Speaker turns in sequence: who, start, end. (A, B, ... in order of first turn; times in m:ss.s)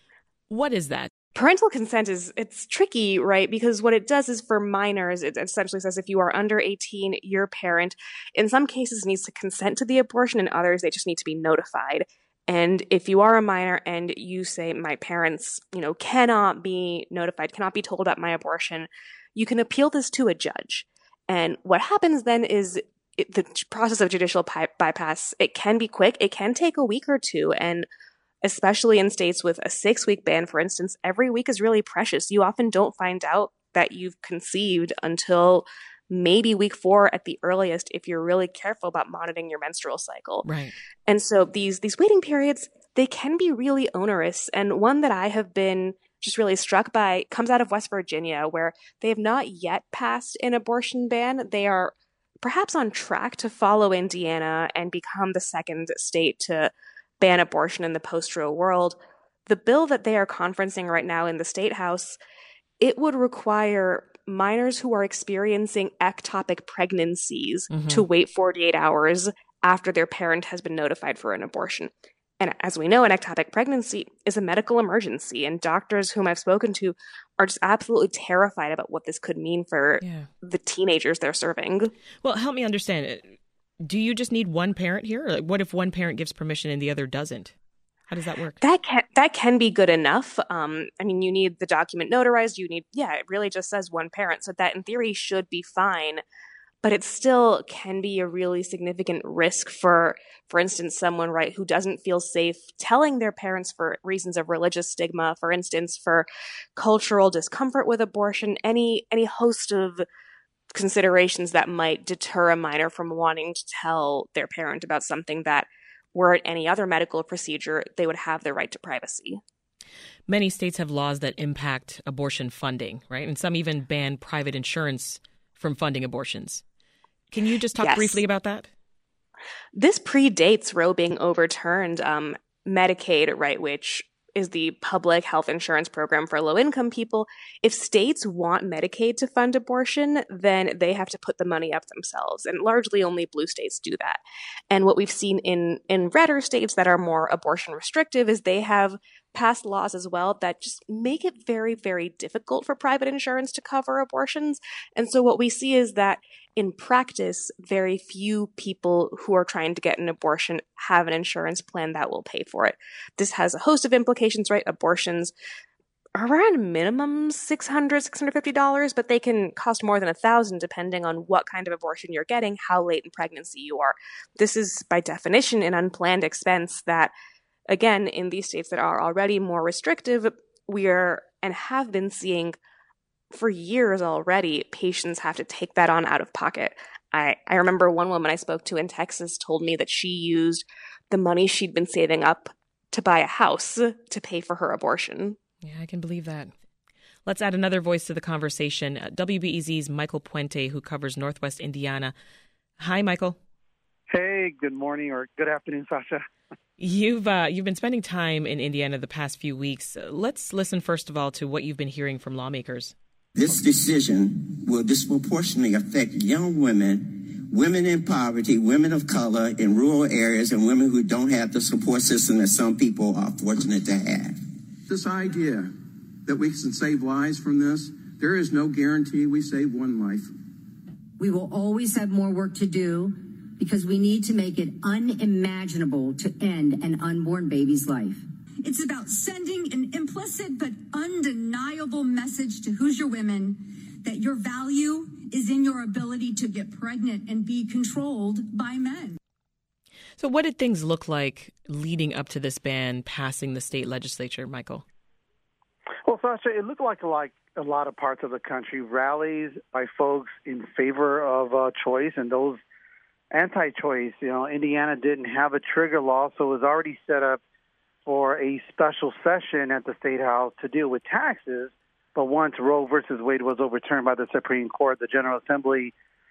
0:00.5-0:01.1 A
0:01.3-0:27.8 B
0:28.4-0:40.4 B
0:40.4-0:40.7 A
0:41.1-1:02.2 B
1:02.8-1:21.9 B
1:07.7-1:08.0 A
1:20.0-1:20.3 A
1:22.2-1:27.5 A
1:28.1-1:28.6 A
1:28.7-1:36.2 B
1:36.8-1:50.0 B
1:50.7-1:59.4 B
2:00.3-2:06.6 A
2:07.3-2:08.7 A
2:07.9-2:08.2 B
2:09.7-2:24.2 B
2:24.7-2:45.3 B
2:46.2-2:57.1 B
2:57.7-3:02.6 B
3:03.3-3:15.4 B
3:15.6-3:16.5 A
3:17.2-3:22.1 A
3:22.8-3:23.4 A
3:24.1-3:26.2 C
3:26.8-3:32.9 A
3:33.3-3:44.4 D
3:44.9-3:45.6 E
3:46.3-3:50.2 E
3:46.3-3:50.1 D
3:51.2-3:52.9 F
3:53.6-3:58.1 F
3:58.6-4:09.2 G
4:10.2-4:14.8 A
4:16.0-4:22.6 C
4:23.3-4:27.4 C
4:28.0-4:35.9 C